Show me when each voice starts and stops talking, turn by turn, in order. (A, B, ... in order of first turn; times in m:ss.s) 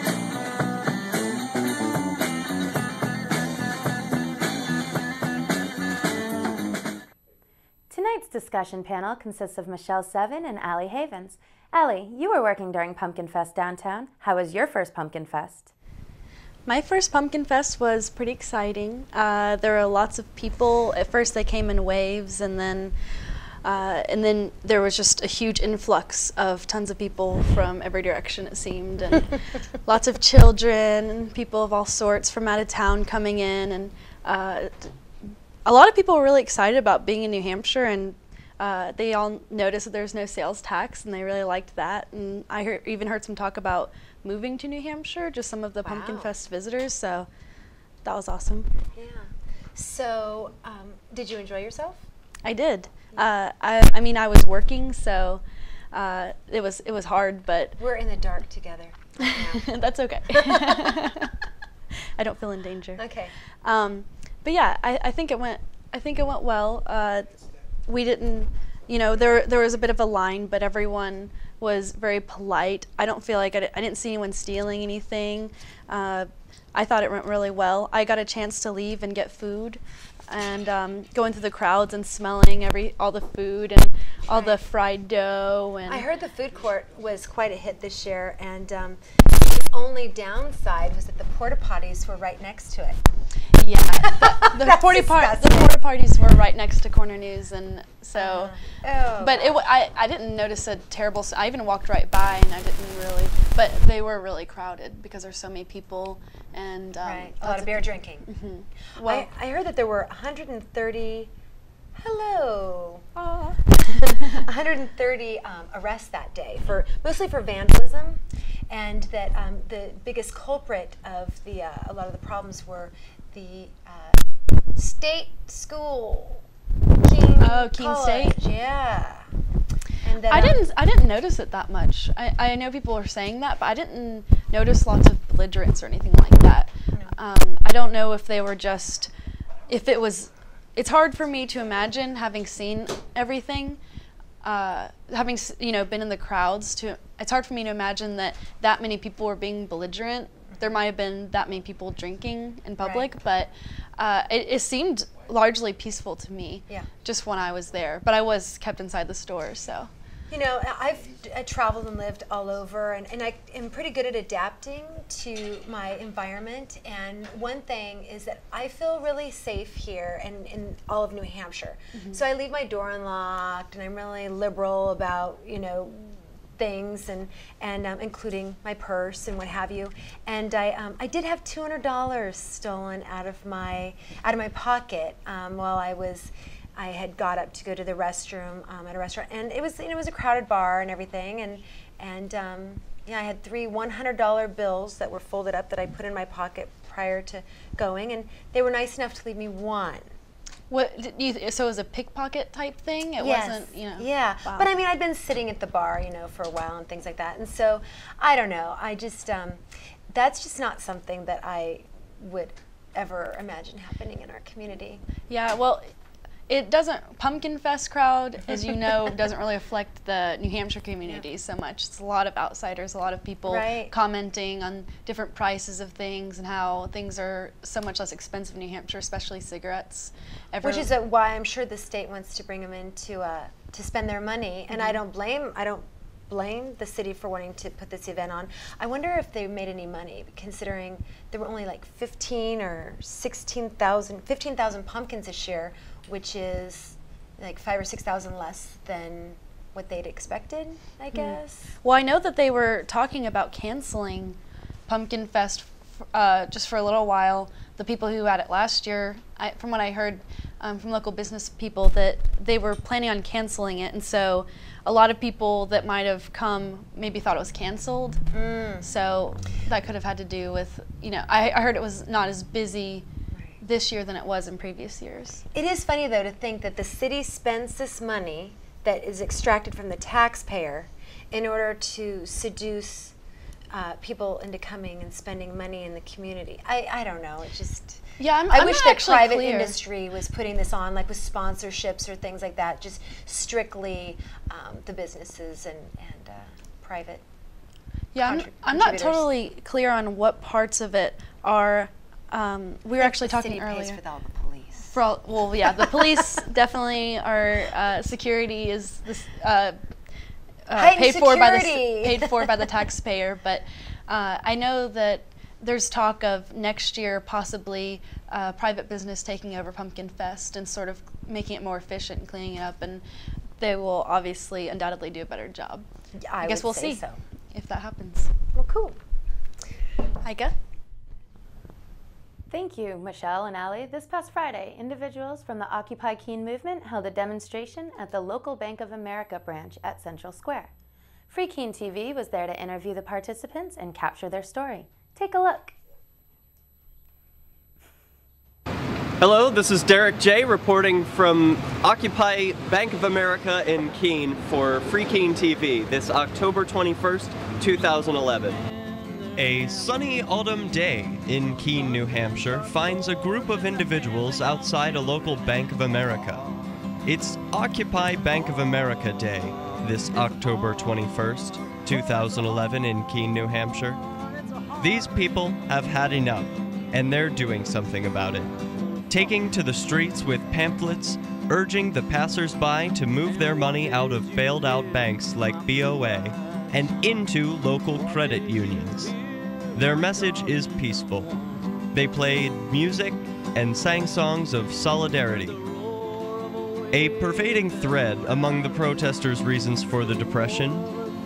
0:07.9-0:15.7 A
0:16.7-0:22.9 B
0:23.6-0:34.9 B
0:35.6-0:47.3 B
0:45.8-0:46.3 C
0:48.0-0:48.7 B
0:48.9-0:52.1 C
0:52.4-0:57.8 B
0:57.8-0:59.7 C
0:59.3-1:01.3 B
1:00.3-1:01.1 C
1:02.2-1:03.0 B
1:03.0-1:03.3 C
1:03.6-1:07.3 B
1:07.9-1:26.0 B
1:24.3-1:24.6 C
1:25.9-1:33.0 C
1:33.6-1:38.5 B
1:34.2-1:35.7 C
1:38.2-1:39.6 C
1:39.2-1:49.3 B
1:47.0-1:48.3 C
1:49.0-1:51.3 C
1:52.0-1:53.1 C
1:53.2-1:53.6 B
1:53.8-2:04.2 C
2:04.8-2:06.4 C
2:07.0-2:09.3 C
2:07.4-2:08.4 B
2:10.0-2:10.6 C
2:10.3-2:19.1 B
2:19.7-2:23.8 B
2:24.4-2:39.9 B
2:32.8-2:33.1 C
2:40.3-3:20.1 C
2:51.9-2:52.2 B
3:20.7-3:24.7 B
3:23.2-3:35.0 C
3:35.3-3:35.9 B
3:36.5-3:50.9 B
3:43.4-3:43.9 C
3:50.6-4:11.7 C
3:54.7-3:55.0 B
4:11.1-4:28.2 B
4:28.3-4:28.9 C
4:28.8-4:33.0 B
4:33.3-4:33.6 C
4:33.6-4:35.4 B
4:35.5-4:43.1 C
4:43.7-4:57.2 C
4:48.2-4:49.8 B
4:58.1-5:04.0 B
4:58.2-4:59.2 C
5:03.0-5:05.0 C
5:04.9-5:09.8 B
5:10.6-5:23.0 B
5:10.8-5:12.3 C
5:23.6-5:25.8 B
5:26.2-5:27.2 C
5:26.4-5:28.3 B
5:28.5-5:29.0 C
5:30.2-5:30.5 B
5:32.5-5:40.7 A
5:41.3-5:45.8 A
5:49.2-5:58.6 D
5:59.4-6:06.4 D
6:07.1-6:14.0 D
6:14.8-6:18.5 D
6:19.1-6:29.1 D
6:29.7-6:31.3 D
6:31.9-6:35.6 D
6:36.9-6:40.9 D